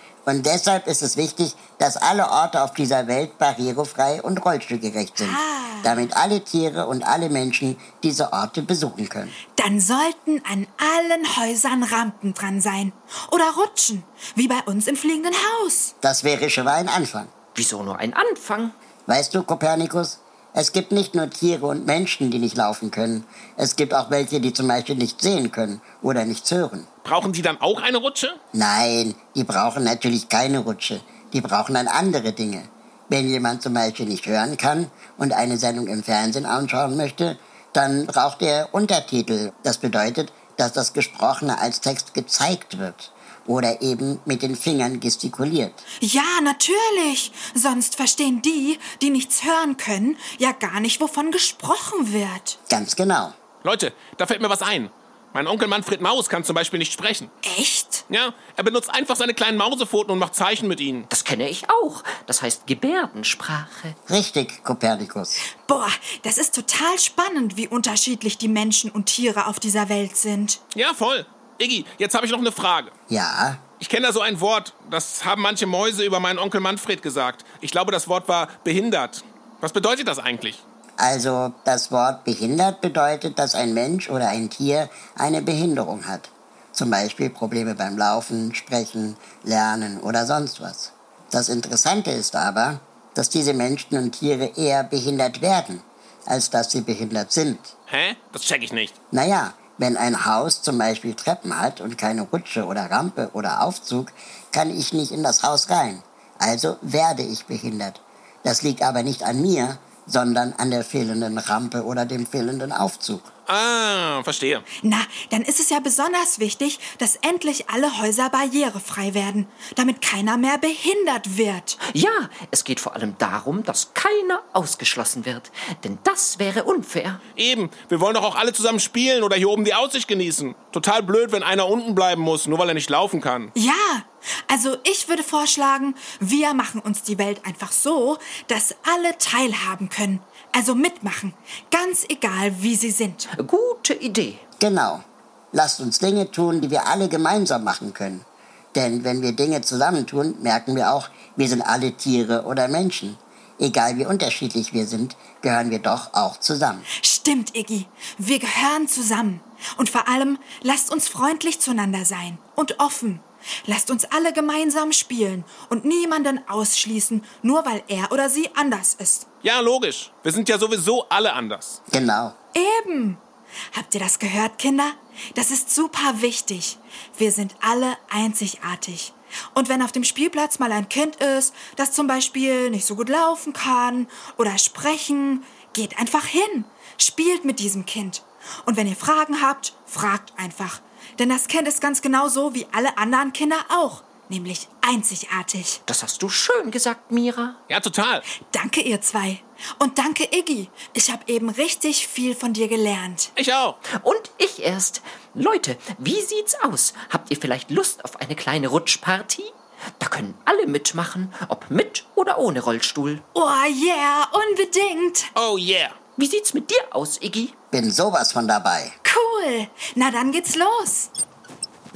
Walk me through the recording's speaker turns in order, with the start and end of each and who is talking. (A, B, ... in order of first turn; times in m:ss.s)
0:00.3-0:09.4 A
0:05.2-0:06.0 B
0:09.6-0:15.9 B
0:16.0-0:17.3 A
0:17.6-0:18.8 C
0:19.1-0:26.9 A
0:27.0-0:28.4 D
0:28.5-0:45.8 A
0:46.0-0:52.6 B
0:52.7-0:53.3 A
0:53.6-0:57.3 D
0:57.4-0:58.0 B
0:58.1-1:01.1 D
1:01.1-1:04.0 C
1:04.1-1:05.4 A
1:05.6-1:10.6 B
1:10.7-1:12.9 D
1:13.1-1:13.6 A
1:13.8-1:20.6 D
1:21.0-1:37.7 A
1:37.9-1:38.9 D
1:39.1-1:53.3 A
1:53.5-1:54.6 D
1:54.8-2:01.8 B
2:01.8-2:07.2 C
2:07.4-2:13.5 D
2:13.6-2:23.3 B
2:23.3-2:24.4 C
2:24.6-2:25.0 A
2:25.5-2:36.9 A
2:37.0-2:49.3 B
2:49.4-2:51.8 D
2:51.9-2:52.4 A
2:52.6-2:53.2 B
2:53.7-3:15.8 B
3:15.9-3:17.6 C
3:17.7-3:18.2 D
3:18.5-3:23.3 B
3:23.4-3:23.8 D
3:23.9-3:33.2 C
3:33.3-3:35.3 B
3:35.4-3:36.0 D
3:36.2-3:37.5 C
3:37.7-3:39.0 A
3:39.0-3:41.1 B